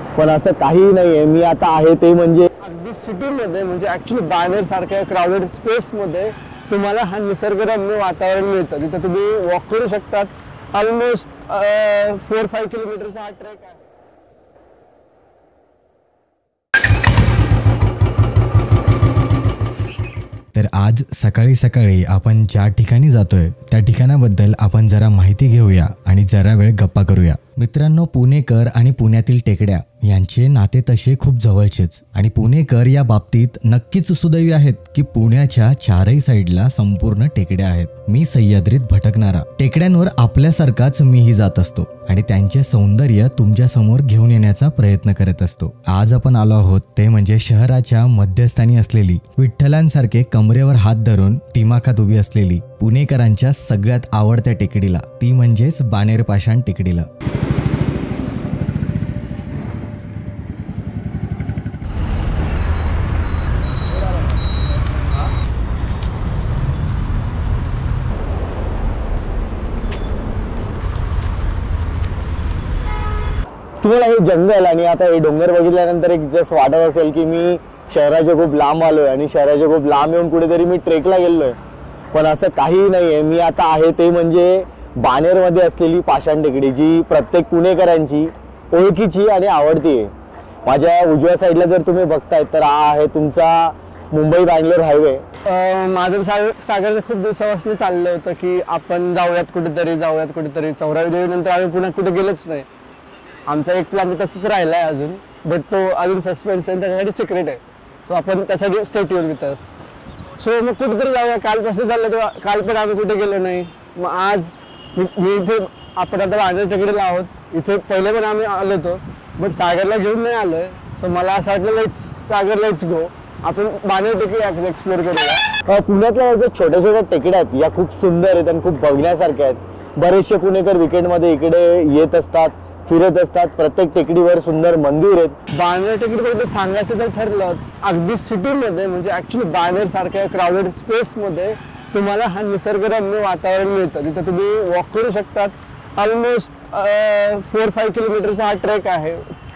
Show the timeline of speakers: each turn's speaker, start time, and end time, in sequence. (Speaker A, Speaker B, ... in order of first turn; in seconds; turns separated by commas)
Speaker A: 0.2-2.5, Speaker B: 2.6-13.8, Speaker C: 20.5-57.1, Speaker A: 73.8-81.6, Speaker A: 82.1-90.1, Speaker A: 90.7-95.3, Speaker B: 95.5-102.7, Speaker B: 103.5-109.7, Speaker B: 110.4-125.5, Speaker A: 125.6-135.4, Speaker B: 135.5-149.2